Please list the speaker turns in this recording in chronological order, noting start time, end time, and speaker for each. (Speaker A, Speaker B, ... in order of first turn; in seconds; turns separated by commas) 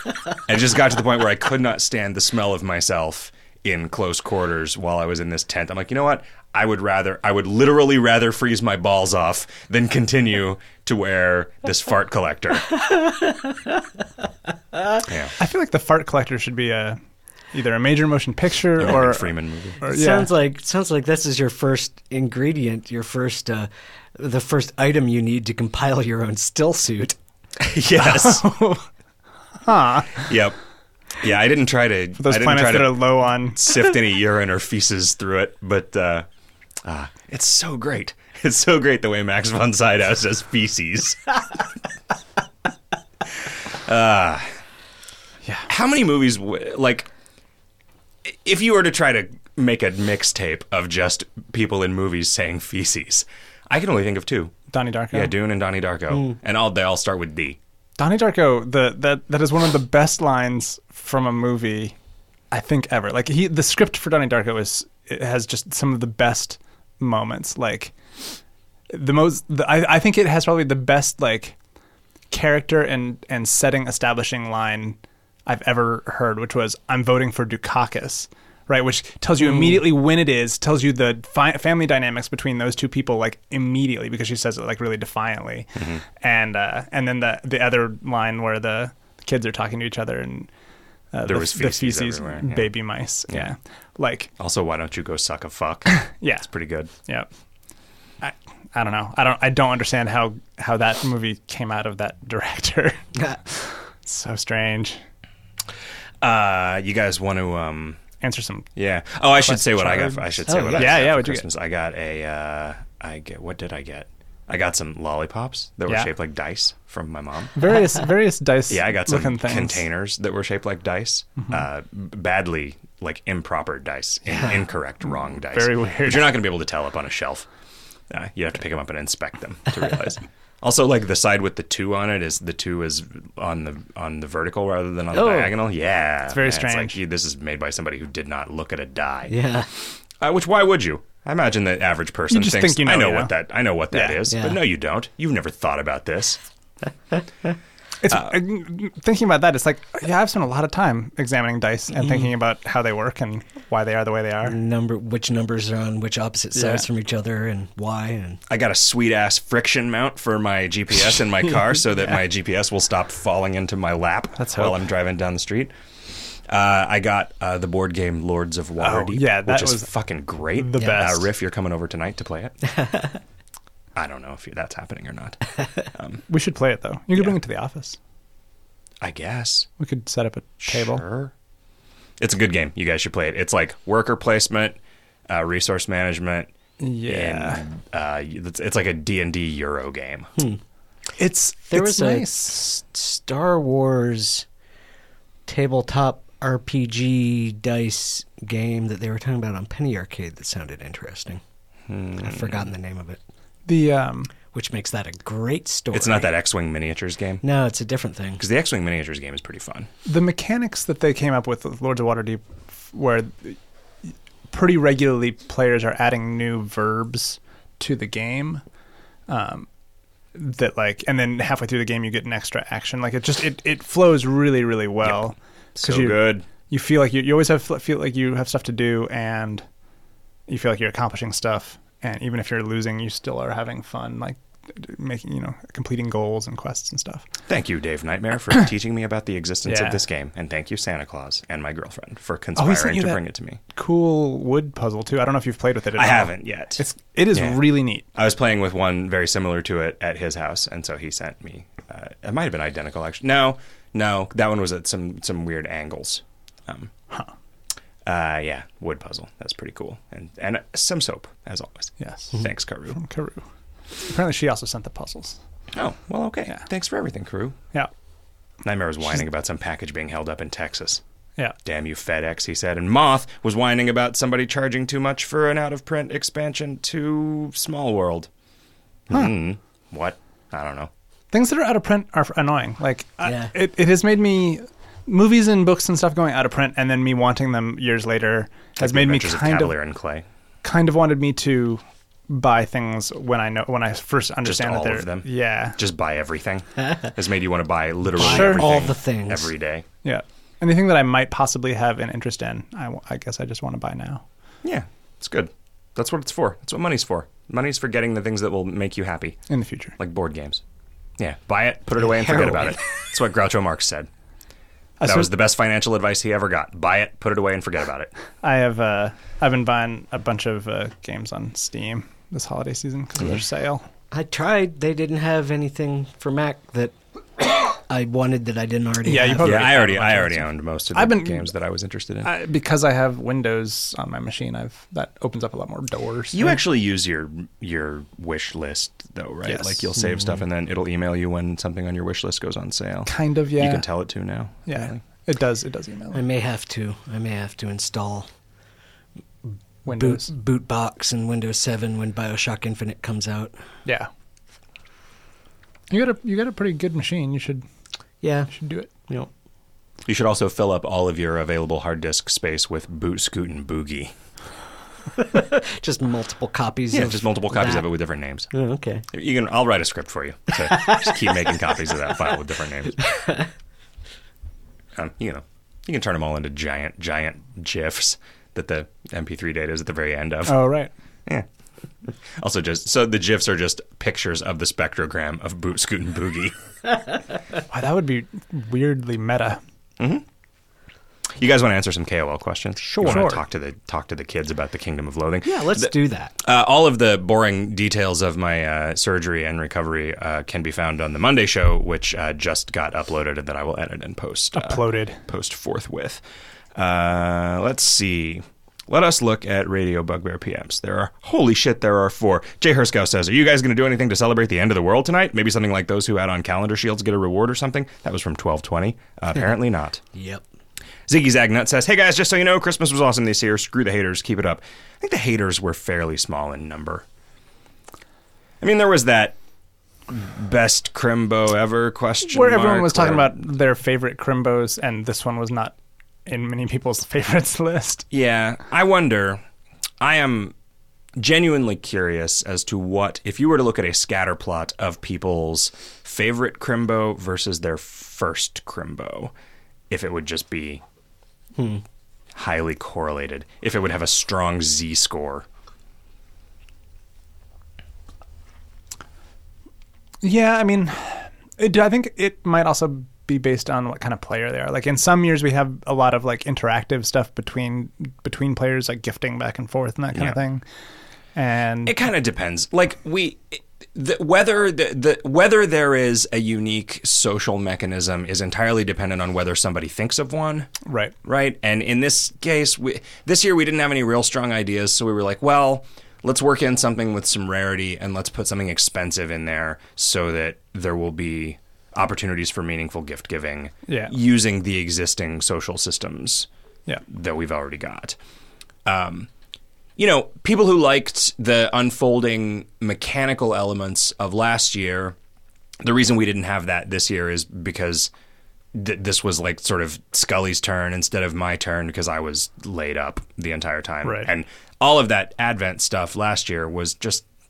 Speaker A: 0.5-12.7, Speaker B: 12.8-13.7, Speaker A: 15.0-15.3, Speaker C: 15.4-17.0, Speaker C: 17.5-20.3, Speaker A: 18.8-19.8, Speaker B: 19.8-27.2, Speaker A: 27.6-28.5, Speaker C: 27.9-28.8, Speaker C: 29.6-30.3, Speaker A: 30.1-30.6, Speaker A: 31.2-36.2, Speaker C: 32.2-33.6, Speaker A: 36.8-41.3, Speaker A: 43.7-44.5, Speaker A: 45.7-47.1, Speaker A: 48.2-54.5, Speaker C: 54.7-55.3, Speaker A: 55.1-57.6, Speaker C: 58.0-61.9, Speaker C: 62.5-67.9, Speaker C: 68.9-71.5, Speaker C: 72.3-90.5, Speaker A: 85.8-86.0, Speaker C: 91.1-94.3, Speaker A: 91.2-92.7, Speaker A: 94.4-96.9, Speaker C: 95.9-97.3, Speaker C: 98.2-105.0, Speaker A: 106.2-108.0, Speaker C: 108.2-108.7, Speaker A: 108.8-117.6, Speaker C: 109.4-111.4, Speaker B: 110.5-111.0, Speaker C: 117.5-119.8, Speaker A: 118.7-127.5, Speaker C: 125.5-126.4, Speaker A: 128.1-139.4, Speaker B: 135.1-135.5, Speaker C: 136.3-137.0, Speaker B: 139.3-139.7, Speaker A: 140.2-146.4, Speaker C: 142.3-143.3, Speaker C: 143.9-144.2, Speaker B: 144.3-144.6, Speaker C: 148.0-154.6, Speaker B: 154.4-158.4, Speaker C: 156.6-156.8, Speaker A: 158.5-165.7, Speaker C: 164.4-164.8, Speaker A: 166.5-172.6, Speaker C: 168.8-169.9, Speaker C: 170.5-171.3, Speaker B: 172.8-173.1, Speaker A: 173.9-175.4, Speaker A: 175.9-176.2, Speaker C: 176.3-178.0, Speaker A: 179.0-179.7, Speaker C: 179.8-181.0, Speaker A: 180.6-181.3, Speaker A: 182.2-184.8, Speaker A: 185.3-186.5, Speaker C: 186.8-187.6, Speaker A: 187.1-190.3, Speaker C: 191.2-192.6, Speaker B: 191.7-194.5, Speaker B: 195.4-201.4, Speaker A: 201.9-202.7, Speaker B: 202.2-203.2, Speaker C: 203.7-204.3, Speaker B: 204.5-206.3, Speaker A: 205.9-207.4, Speaker B: 207.4-208.4, Speaker A: 208.4-209.9, Speaker C: 210.1-218.6, Speaker C: 219.3-219.7, Speaker C: 220.3-229.6, Speaker A: 225.8-226.4, Speaker C: 230.5-237.2, Speaker A: 237.5-243.6, Speaker C: 239.6-240.0, Speaker C: 242.6-243.2, Speaker C: 243.7-248.1, Speaker A: 245.9-256.9, Speaker A: 258.0-263.0, Speaker C: 262.0-263.4, Speaker C: 264.0-265.4, Speaker A: 265.7-267.6, Speaker A: 268.6-271.0, Speaker A: 271.6-278.3, Speaker A: 279.1-280.9, Speaker C: 281.3-289.8, Speaker B: 283.2-283.5, Speaker A: 288.8-290.2, Speaker C: 290.6-295.8, Speaker A: 294.4-299.8, Speaker C: 298.1-298.9, Speaker B: 298.2-299.5, Speaker C: 300.0-304.2, Speaker A: 304.6-309.4, Speaker C: 309.5-309.9, Speaker A: 310.0-310.6, Speaker A: 311.2-314.1, Speaker B: 312.0-312.8, Speaker C: 315.0-315.3, Speaker A: 315.0-318.1, Speaker C: 318.4-323.9, Speaker B: 324.1-329.7, Speaker C: 329.0-331.5, Speaker A: 329.4-332.3, Speaker C: 332.2-336.6, Speaker A: 336.3-345.0, Speaker C: 339.5-339.8, Speaker C: 343.1-343.8, Speaker C: 344.7-346.2, Speaker B: 346.1-348.3, Speaker C: 349.8-350.3, Speaker B: 349.9-353.6, Speaker C: 355.9-357.6, Speaker B: 358.2-358.5, Speaker C: 358.5-358.9, Speaker A: 360.1-364.1, Speaker B: 365.1-367.9, Speaker A: 366.9-368.5, Speaker B: 368.5-369.1, Speaker A: 369.1-373.0, Speaker B: 370.6-371.3, Speaker B: 373.0-373.5, Speaker A: 374.9-380.7, Speaker C: 380.5-380.9, Speaker A: 382.4-386.5, Speaker C: 387.7-389.6, Speaker A: 390.0-390.2, Speaker A: 391.4-406.2, Speaker C: 392.9-393.4, Speaker B: 395.4-396.3, Speaker C: 404.5-405.2, Speaker A: 406.7-420.0, Speaker B: 420.1-420.4, Speaker A: 421.1-427.0, Speaker A: 428.6-429.3, Speaker A: 430.1-433.4, Speaker C: 432.2-435.7, Speaker C: 436.2-438.1, Speaker A: 438.1-439.4, Speaker A: 440.0-440.5, Speaker A: 441.2-449.3, Speaker A: 449.9-450.8, Speaker B: 451.6-451.8, Speaker A: 452.3-455.4, Speaker C: 460.2-470.6, Speaker C: 471.3-472.0, Speaker A: 471.9-480.7, Speaker C: 480.8-481.1, Speaker A: 481.2-496.5, Speaker C: 493.9-494.1, Speaker A: 497.1-498.2, Speaker A: 498.8-499.3, Speaker A: 500.0-505.1, Speaker A: 505.8-508.1, Speaker A: 508.7-517.2, Speaker C: 514.0-514.3